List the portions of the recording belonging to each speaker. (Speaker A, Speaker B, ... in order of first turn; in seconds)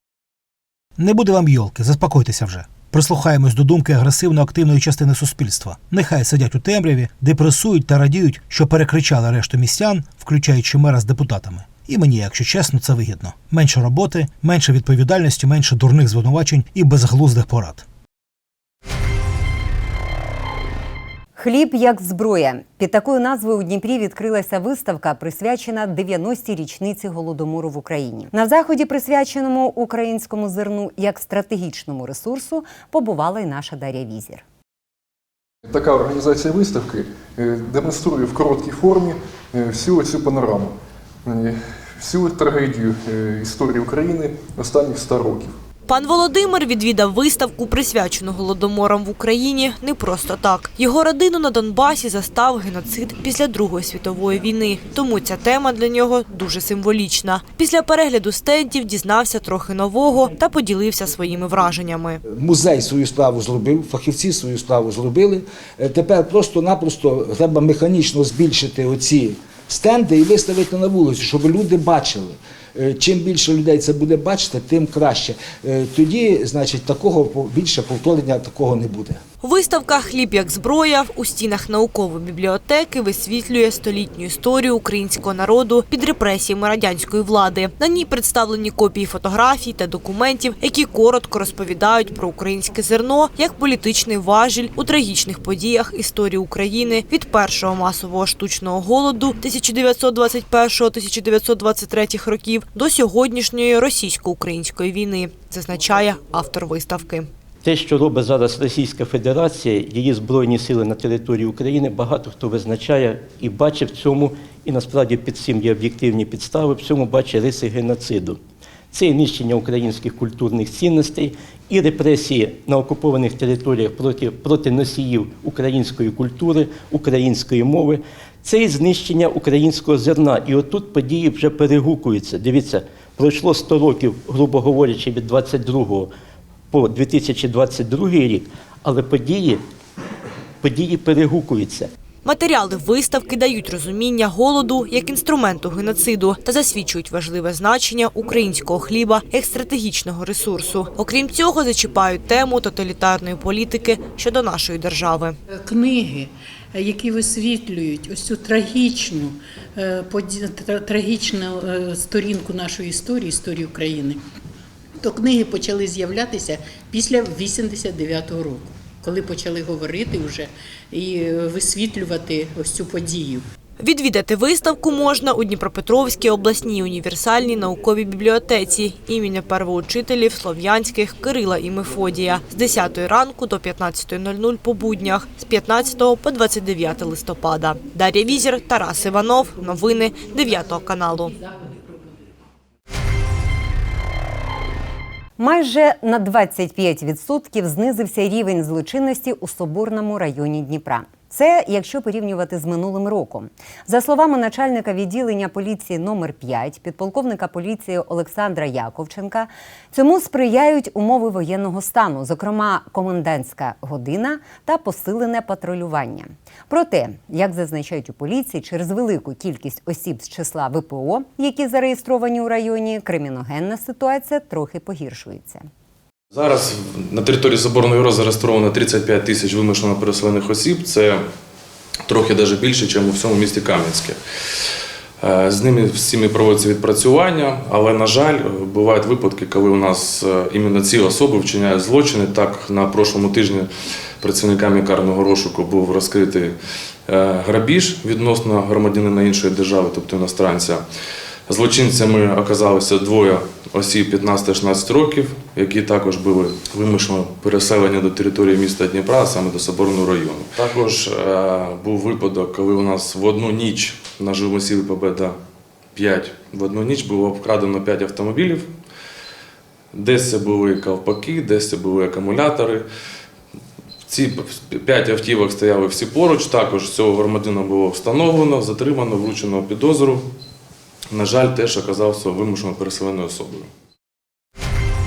Speaker A: 1.0-17.8
Speaker B: 21.4-34.4, 195.4-225.7
Speaker C: 35.6-40.7, 41.2-45.5
Speaker D: 45.9-62.2, 79.4-107.3, 142.2-155.4, 173.8-191.4
Speaker E: 62.2-79.2
Speaker F: 107.6-118.4, 118.9-136.1, 136.7-139.6, 140.6-141.9
Speaker G: 155.5-164.2, 165.0-173.4
Speaker H: 226.3-231.2, 232.1-234.2, 235.2-243.7, 244.2-246.5, 247.1-250.8, 251.5-265.4, 265.9-268.7, 269.9-272.8, 274.1-280.2, 281.1-283.7